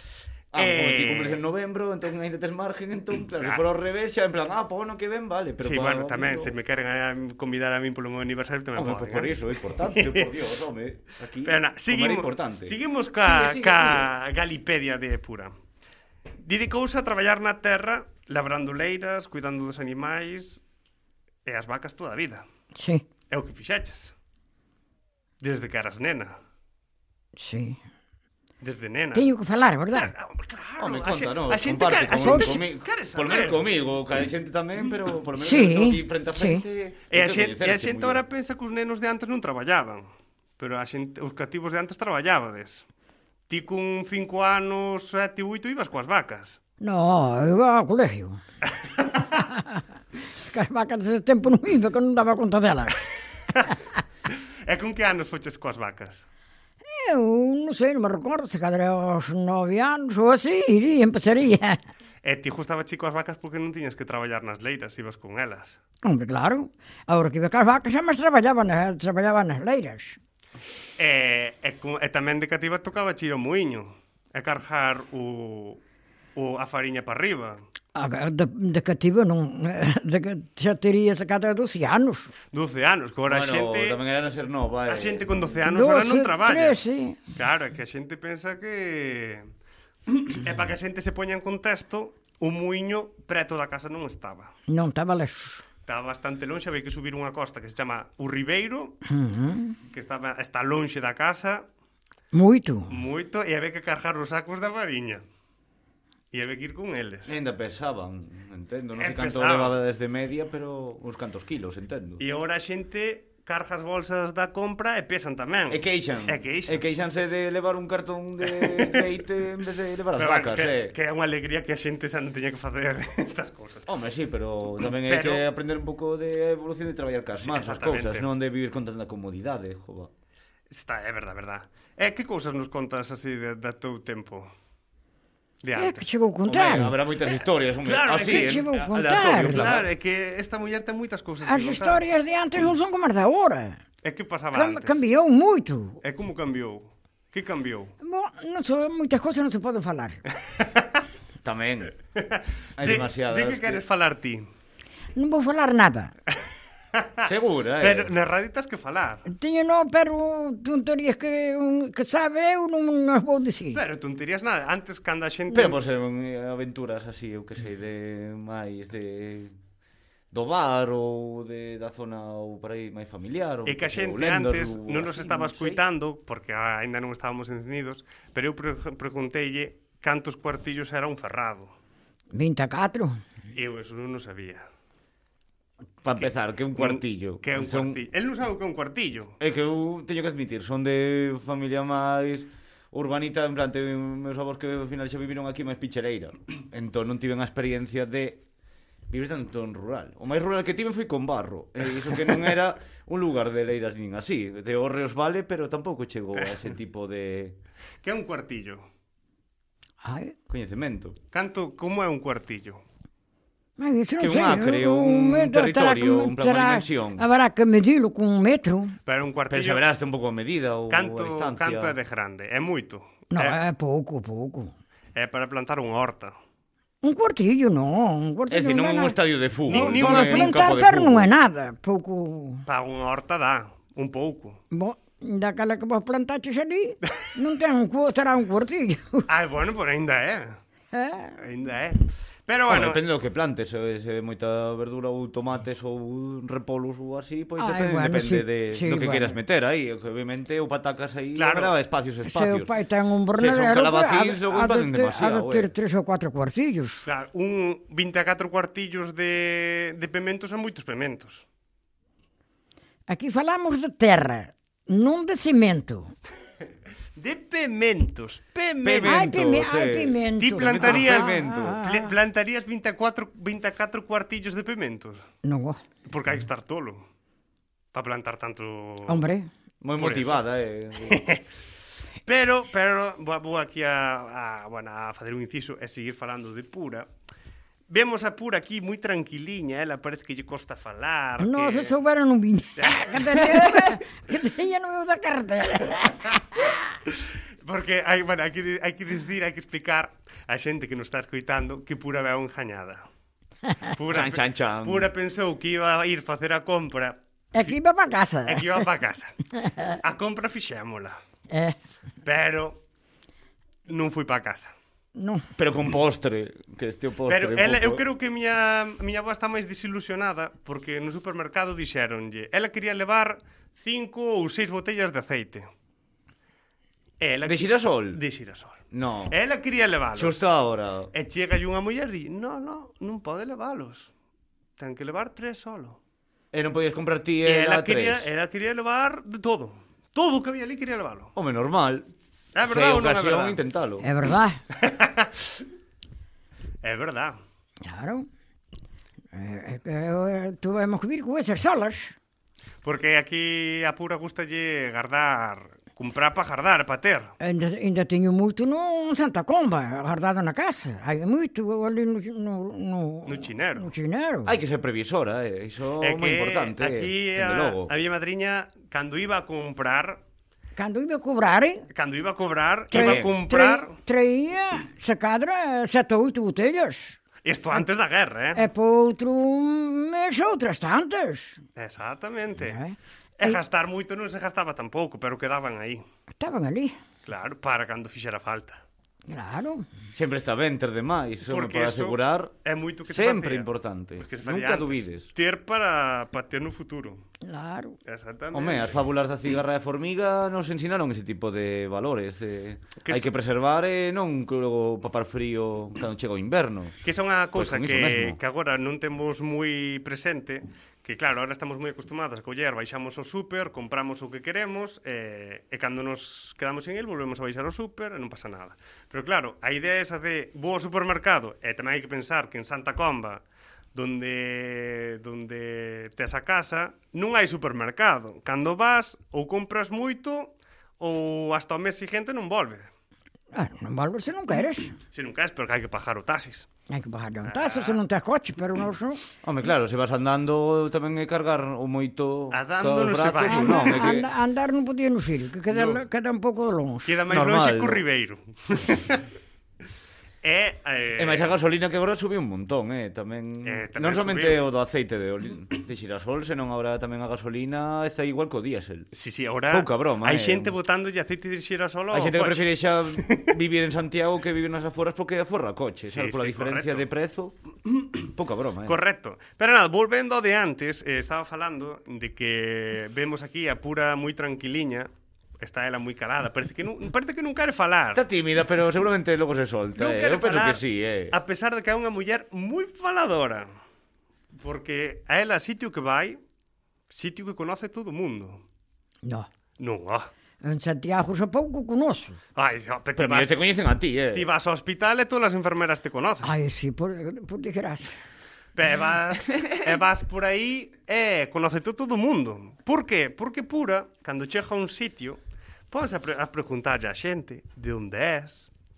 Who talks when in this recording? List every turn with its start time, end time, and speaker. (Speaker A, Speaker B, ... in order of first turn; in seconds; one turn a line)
Speaker A: 0.5-6.5
Speaker B: 0.6-1.4
Speaker B: 3.4-3.6
Speaker B: 5.6-10.3
Speaker A: 8.8-14.1
Speaker B: 11.4-15.5
Speaker B: 16.4-20.6
Speaker B: 21.4-22.4
Speaker C: 22.8-23.1
Speaker B: 23.3-24.1
Speaker B: 25.4-26.4
Speaker C: 27.4-27.8
Speaker B: 28.6-29.3
Speaker C: 29.1-30.1
Speaker B: 29.9-33.7
Speaker A: 30.8-38.2
Speaker C: 32.2-32.6
Speaker C: 35.4-36.6
Speaker B: 37.1-40.1
Speaker B: 40.6-42.9
Speaker B: 43.5-46.6
Speaker C: 46.8-48.4
Speaker B: 49.0-49.2
Speaker C: 49.3-49.8
Speaker C: 50.4-53.0
Speaker B: 54.3-56.3
Speaker C: 56.9-61.8
Speaker B: 62.2-65.8
Speaker C: 66.0-70.2
Speaker B: 71.0-75.8
Speaker B: 76.3-77.6
Speaker C: 78.0-82.3
Speaker B: 82.5-84.0
Speaker A: 83.3-85.3
Speaker B: 84.9-89.5
Speaker C: 85.6-87.2
Speaker B: 90.1-94.5
Speaker C: 94.7-95.6
Speaker B: 95.9-99.0
Speaker C: 99.1-99.8
Speaker B: 99.9-101.7
Speaker C: 102.3-102.9
Speaker B: 102.9-105.2
Speaker B: 106.3-107.4
Speaker A: 107.3-112.2
Speaker B: 109.0-109.8
Speaker B: 112.2-116.9
Speaker A: 115.7-121.0
Speaker B: 118.4-119.2
Speaker B: 120.2-123.9
Speaker A: 123.9-130.1
Speaker B: 125.0-125.5
Speaker B: 127.4-128.3
Speaker B: 130.7-134.5
Speaker B: 135.6-136.1
Speaker C: 135.8-136.9
Speaker A: 136.5-139.9
Speaker B: 137.8-142.0
Speaker C: 138.2-139.7
Speaker C: 141.5-143.8
Speaker B: 144.0-145.0
Speaker C: 144.5-146.0
Speaker B: 146.0-147.9
Speaker C: 148.0-150.2
Speaker B: 150.6-150.9
Speaker A: 151.4-151.9
Speaker B: 152.2-154.5
Speaker A: 152.8-153.8
Speaker C: 155.2-156.1
Speaker B: 157.0-157.3
Speaker A: 157.2-158.1
Speaker B: 157.8-159.3
Speaker C: 159.3-163.8
Speaker B: 163.7-165.8
Speaker A: 165.5-169.6
Speaker A: 170.3-175.8
Speaker B: 173.7-181.7
Speaker C: 182.3-183.2
Speaker B: 183.5-184.7
Speaker A: 186.0-188.0
Speaker B: 186.2-189.4
Speaker A: 189.4-198.4
Speaker A: 199.1-207.6
Speaker B: 208.0-208.8
Speaker C: 210.0-210.3
Speaker A: 210.5-211.2
Speaker B: 211.3-212.8
Speaker C: 213.8-218.9
Speaker A: 214.2-217.3
Speaker B: 219.1-219.8
Speaker A: 219.5-222.0
Speaker B: 220.9-223.6
Speaker C: 223.3-224.7
Speaker B: 225.2-226.3
Speaker C: 227.0-229.2
Speaker A: 228.5-231.3
Speaker B: 229.7-230.6
Speaker C: 229.7-232.7
Speaker B: 232.7-234.6
Speaker C: 234.7-239.3
Speaker B: 239.3-240.6
Speaker C: 240.9-241.4
Speaker B: 241.4-243.0
Speaker A: 242.7-252.7
Speaker C: 247.6-249.4
Speaker B: 251.3-251.7
Speaker C: 252.2-257.1
Speaker A: 253.3-255.7
Speaker B: 257.1-261.4
Speaker C: 263.1-266.1
Speaker B: 267.2-269.4
Speaker A: 268.8-271.8
Speaker C: 269.1-272.1
Speaker B: 270.4-275.2
Speaker C: 275.4-275.8
Speaker B: 276.1-277.0
Speaker B: 277.9-279.3
Speaker C: 279.1-279.5
Speaker A: 279.8-281.3
Speaker B: 280.0-280.4
Speaker B: 281.1-281.4
Speaker B: 282.2-287.1
Speaker B: 287.9-292.0
Speaker C: 291.4-297.0
Speaker B: 292.8-294.0
Speaker B: 297.1-303.1
Speaker B: 303.9-307.2
Speaker A: 304.1-305.1
Speaker C: 307.5-308.9
Speaker B: 308.5-311.2
Speaker C: 309.6-310.0
Speaker C: 311.5-311.8
Speaker B: 312.2-312.8
Speaker B: 313.9-314.7
Speaker C: 315.1-315.4
Speaker A: 315.6-318.0
Speaker B: 317.3-325.7
Speaker B: 327.2-328.8
Speaker A: 327.4-328.2
Speaker A: 328.9-329.4
Speaker B: 329.3-330.4
Speaker A: 330.1-331.1
Speaker B: 331.1-334.1
Speaker B: 334.8-336.0
Speaker A: 336.5-338.3
Speaker B: 337.4-341.3
Speaker A: 341.4-342.1
Speaker B: 342.6-343.6
Speaker A: 342.6-344.1
Speaker C: 344.0-344.6
Speaker B: 344.8-345.6
Speaker B: 346.8-347.4
Speaker C: 347.8-348.3
Speaker C: 349.3-352.2
Speaker B: 352.8-357.3
Speaker C: 357.4-364.6
Speaker B: 363.3-363.9
Speaker A: 364.5-367.9
Speaker B: 366.0-370.2
Speaker C: 370.8-371.9
Speaker B: 371.9-373.9
Speaker A: 372.9-373.3
Speaker C: 372.9-377.2
Speaker B: 377.4-378.6
Speaker C: 378.6-381.6
Speaker B: 381.8-382.8
Speaker C: 382.6-383.6
Speaker B: 383.4-386.0
Speaker C: 386.4-387.0
Speaker B: 387.2-388.8
Speaker C: 389.3-389.9
Speaker A: 390.1-392.5
Speaker B: 391.5-393.7
Speaker A: 393.1-395.3
Speaker B: 394.2-397.2
Speaker C: 397.4-398.0
Speaker B: 398.1-399.0
Speaker A: 398.5-407.0
Speaker B: 403.0-403.3
Speaker B: 407.0-423.4
Speaker A: 407.6-408.4
Speaker B: 423.9-432.9
Speaker C: 433.5-435.0
Speaker B: 435.1-436.7
Speaker C: 436.9-439.2
Speaker B: 437.4-438.0
Speaker A: 439.4-444.3
Speaker B: 442.5-444.1
Speaker C: 443.5-447.1
Speaker B: 445.7-446.0
Speaker B: 447.1-449.3
Speaker A: 447.3-448.0
Speaker B: 450.4-451.6
Speaker A: 451.2-459.1
Speaker B: 453.6-454.6
Speaker B: 459.1-463.5
Speaker A: 459.7-460.7
Speaker A: 462.1-467.6
Speaker B: 466.1-467.1
Speaker A: 468.2-469.0
Speaker B: 468.9-478.2
Speaker A: 478.1-481.4
Speaker B: 480.0-483.7
Speaker B: 484.5-486.4
Speaker B: 487.1-488.6
Speaker B: 489.8-490.3
Speaker C: 490.6-492.4
Speaker B: 492.6-493.6
Speaker A: 493.2-494.5
Speaker B: 494.3-496.5
Speaker C: 496.4-498.1
Speaker B: 498.8-505.4
Speaker B: 505.9-508.7